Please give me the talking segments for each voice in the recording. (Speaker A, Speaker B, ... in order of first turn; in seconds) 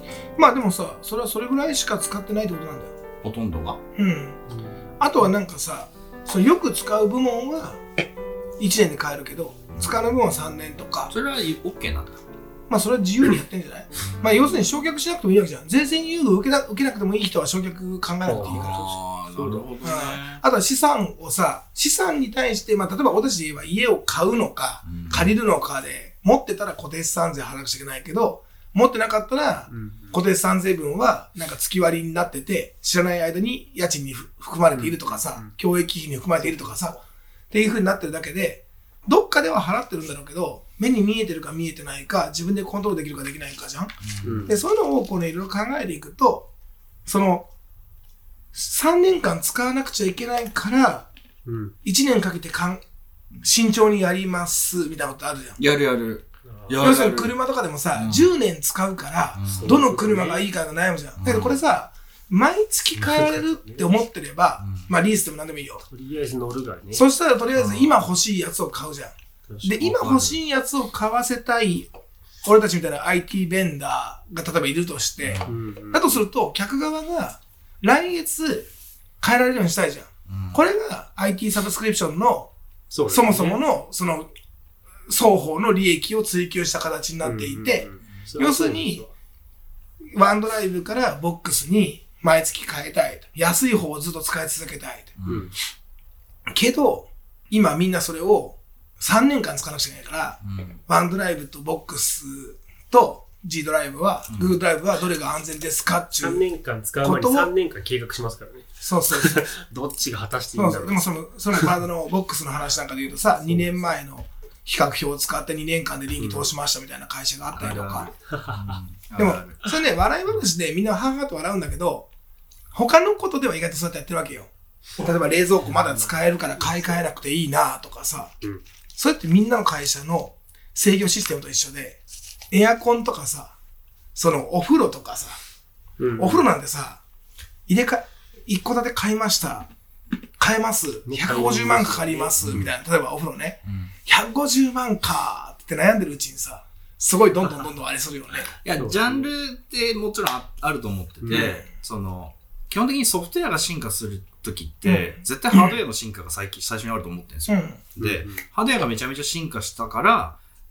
Speaker A: 0.3-3.0, 3.9-4.4, 5.0-7.8, 8.6-11.1, 12.7-19.0, 19.8-43.9, 44.5-46.5, 47.0-47.5, 48.5-51.1, 51.8-52.8, 53.4-55.6, 56.8-65.8, 66.9-69.1, 69.6-78.7, 79.2-82.5, 83.1-84.3, 85.1-89.0, 90.1-95.2, 96.5-106.5, 107.0-107.5, 108.8-109.5, 110.5-118.1, 119.2-122.1, 122.7-128.3, 128.9-133.5, 134.1-135.4, 136.2-137.0, 137.7-139.7, 140.4-148.5, 151.3-151.6, 154.8-155.7, 157.5-157.8
Speaker B: 3.2-3.8, 9.7-10.1, 11.1-12.2, 14.0-14.6, 18.3-20.4, 24.9-25.3, 44.0-44.5, 55.6-57.4, 57.9-58.3, 59.4-59.8, 61.2-61.6, 64.6-64.9, 75.2-75.5, 80.3-80.6, 95.2-95.5, 100.4-100.8, 104.3-104.6, 117.5-119.6, 142.4-142.7, 143.7-143.9, 148.6-160.4
Speaker C: 4.5-4.8, 18.2-18.8, 19.3-19.7, 29.7-30.2, 34.7-35.5, 44.2-44.6, 51.4-51.7, 56.5-56.8, 59.5-60.5, 62.9-63.9, 65.9-67.0, 69.5-70.4, 75.5-76.2, 82.9-83.6, 87.2-89.1, 95.2-95.5, 106.2-111.0, 113.4-113.8, 116.2-116.5, 118.3-118.8, 125.6-127.0, 136.0-136.4, 141.1-142.7, 148.8-149.3, 151.2-151.5, 158.0-158.4